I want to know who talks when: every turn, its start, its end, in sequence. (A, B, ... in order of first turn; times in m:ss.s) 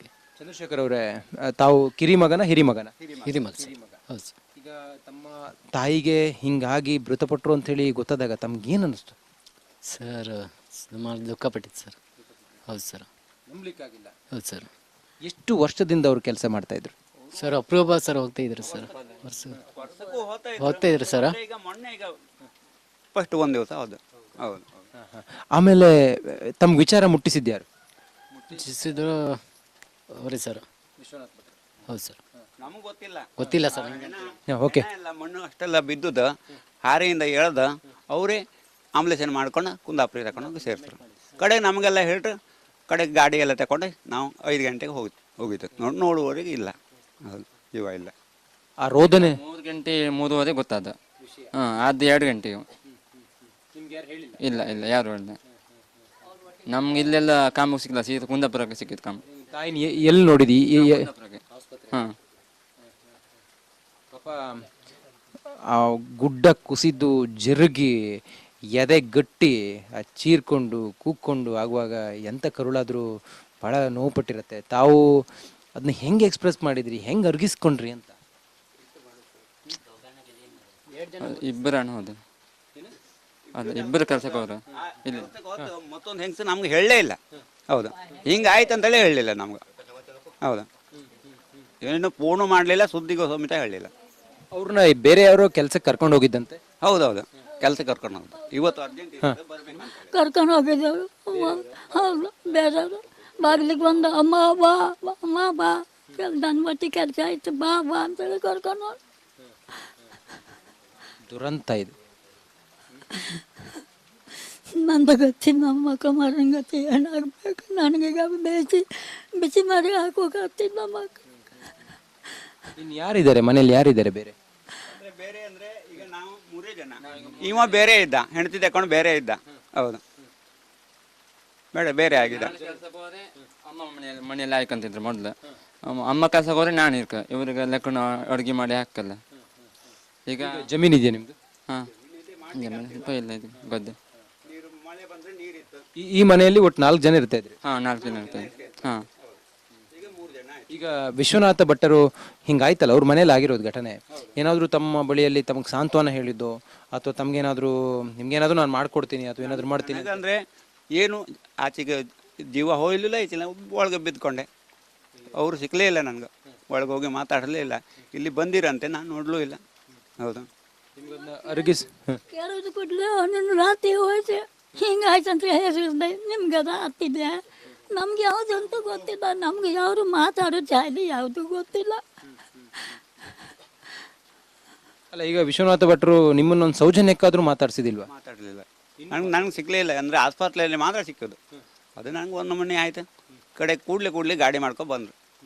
0:00.4-0:03.0 A
0:03.0-0:03.4 B
0:03.2-0:04.4 C
0:03.6-0:04.0 A
0:04.6-0:09.2 A
0:09.8-0:12.0 C
0:12.7-0:13.1 C
0:13.5-0:14.1 A
0:14.3-0:14.7 C
0:15.2-0:16.9 A
0:17.4-0:19.6 C
0:19.7-0:22.1 B
0:20.6-0:21.4 C
0:23.1-0:24.9 B
0:25.0-0:27.7 A
0:28.5-0:29.4 C
0:30.1-0:30.7 C
0:31.0-0:31.5 A
0:31.9-0:32.2 C
0:32.6-0:36.3 B
0:33.4-0:34.1 C
0:34.5-0:34.9 A
0:36.8-0:38.4 B
0:39.0-0:42.4 B
0:42.9-0:48.1 B
0:48.8-0:49.4 A
0:49.1-0:51.0 D
0:51.2-0:51.5 A
0:51.5-0:52.7 D
0:53.7-0:54.4 A
0:54.4-0:55.4 D
0:56.7-0:59.2 D
0:59.3-1:02.0 A
1:00.7-1:02.2 D
1:04.1-1:04.7 A
1:05.6-1:08.2 A
1:08.8-1:13.0 A
1:13.6-1:15.1 A
1:15.8-1:18.2 A
1:21.1-1:22.2 D
1:23.5-1:27.2 B
1:23.6-1:25.3 D
1:27.7-1:29.6 B
1:30.4-1:30.7 B
1:31.8-1:33.9 B
1:34.5-1:36.6 A
1:36.8-1:40.1 B
1:40.0-1:49.0 E
1:51.3-1:51.9 A
1:53.1-1:53.8 E
1:54.7-2:01.2 E
2:02.8-2:04.4 A
2:04.8-2:10.0 B
2:07.1-2:07.8 D
2:11.7-2:12.5 B
2:12.2-2:19.2 D
2:20.3-2:20.7 D
2:20.4-2:21.4 A
2:21.9-2:23.1 B
2:22.5-2:24.0 D
2:24.4-2:25.8 B
2:26.0-2:27.6 A
2:27.6-2:29.0 D
2:28.0-2:29.4 B
2:29.9-2:30.7 B
2:30.7-2:40.2 A
2:39.4-2:40.4 B
2:41.0-2:42.0 B
2:42.5-2:44.5 B
2:45.3-2:49.6 B
2:50.2-2:50.5 B
2:51.0-2:52.2 A
2:51.3-2:51.8 E
2:52.3-3:02.0 E
3:05.1-3:08.1 A
3:08.1-3:11.4 B
3:09.0-3:09.4 A
3:12.0-3:13.0 B
3:13.6-3:15.1 B